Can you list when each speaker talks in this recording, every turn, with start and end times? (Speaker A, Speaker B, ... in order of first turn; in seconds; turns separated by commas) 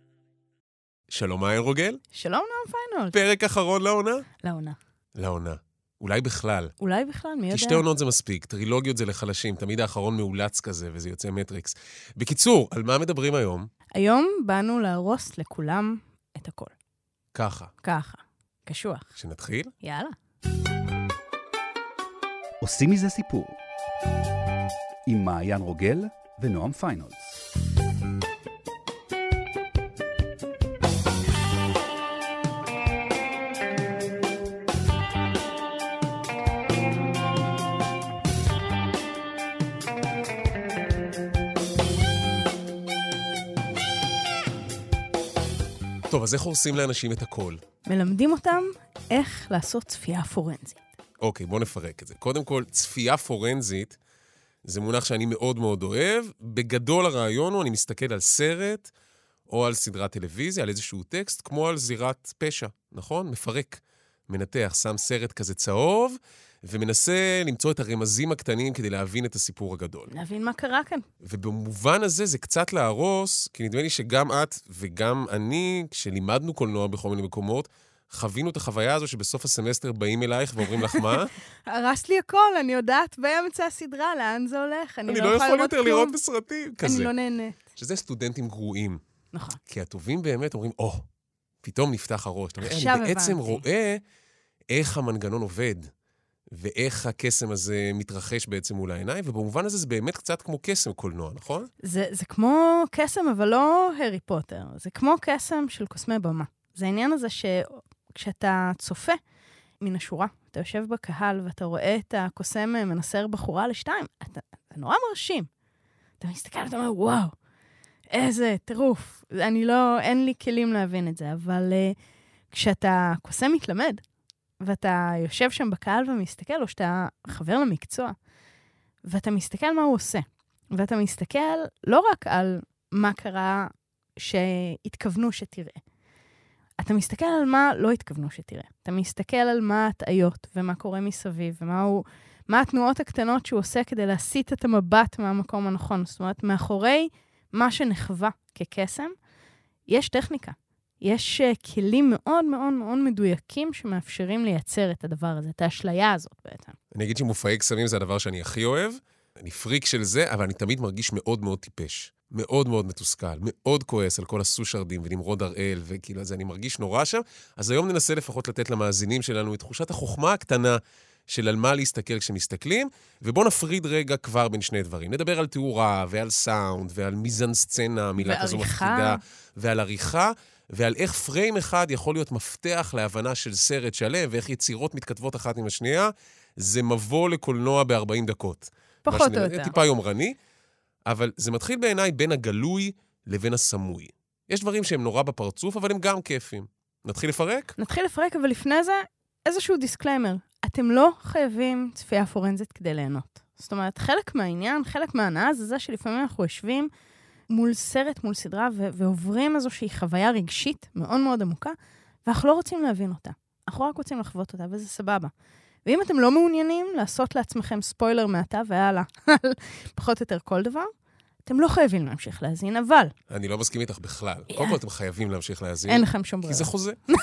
Speaker A: 1.1-2.0, Speaker B: 2.1-3.2, Speaker A: 3.1-4.3, Speaker B: 4.4-4.8, Speaker A: 5.2-6.7, Speaker B: 6.8-7.8, Speaker A: 7.5-13.7, Speaker B: 13.9-16.7, Speaker A: 17.3-17.7, Speaker B: 17.8-19.1, Speaker A: 19.1-19.7, Speaker B: 19.8-20.1, Speaker C: 22.6-23.6, Speaker C: 25.1-27.3, Speaker A: 46.1-47.6, Speaker B: 47.9-50.8, Speaker A: 51.2-54.0, Speaker A: 54.6-58.9, Speaker A: 59.5-70.1, Speaker B: 70.1-71.0, Speaker A: 71.2-81.3, Speaker B: 81.7-86.2, Speaker A: 85.1-87.1, Speaker B: 86.8-87.6, Speaker A: 87.8-89.0, Speaker B: 89.3-89.6, Speaker A: 89.7-91.0, Speaker A: 91.6-94.0, Speaker B: 92.6-93.6, Speaker A: 94.7-95.9, Speaker A: 96.5-101.7, Speaker B: 101.8-109.2, Speaker B: 109.8-115.5, Speaker B: 116.2-117.3, Speaker B: 118.1-122.0, Speaker B: 122.5-124.0, Speaker B: 124.6-128.2, Speaker B: 129.1-135.8, Speaker B: 136.8-149.1, Speaker B: 149.9-156.8, Speaker A: 156.9-190.3, Speaker B: 178.2-179.2, Speaker B: 189.0-189.8, Speaker A: 191.1-197.8, Speaker B: 197.8-206.9, Speaker B: 207.5-215.3, Speaker B: 215.8-220.9, Speaker B: 221.4-223.1, Speaker A: 223.3-227.0, Speaker B: 224.5-224.8, Speaker B: 225.9-226.7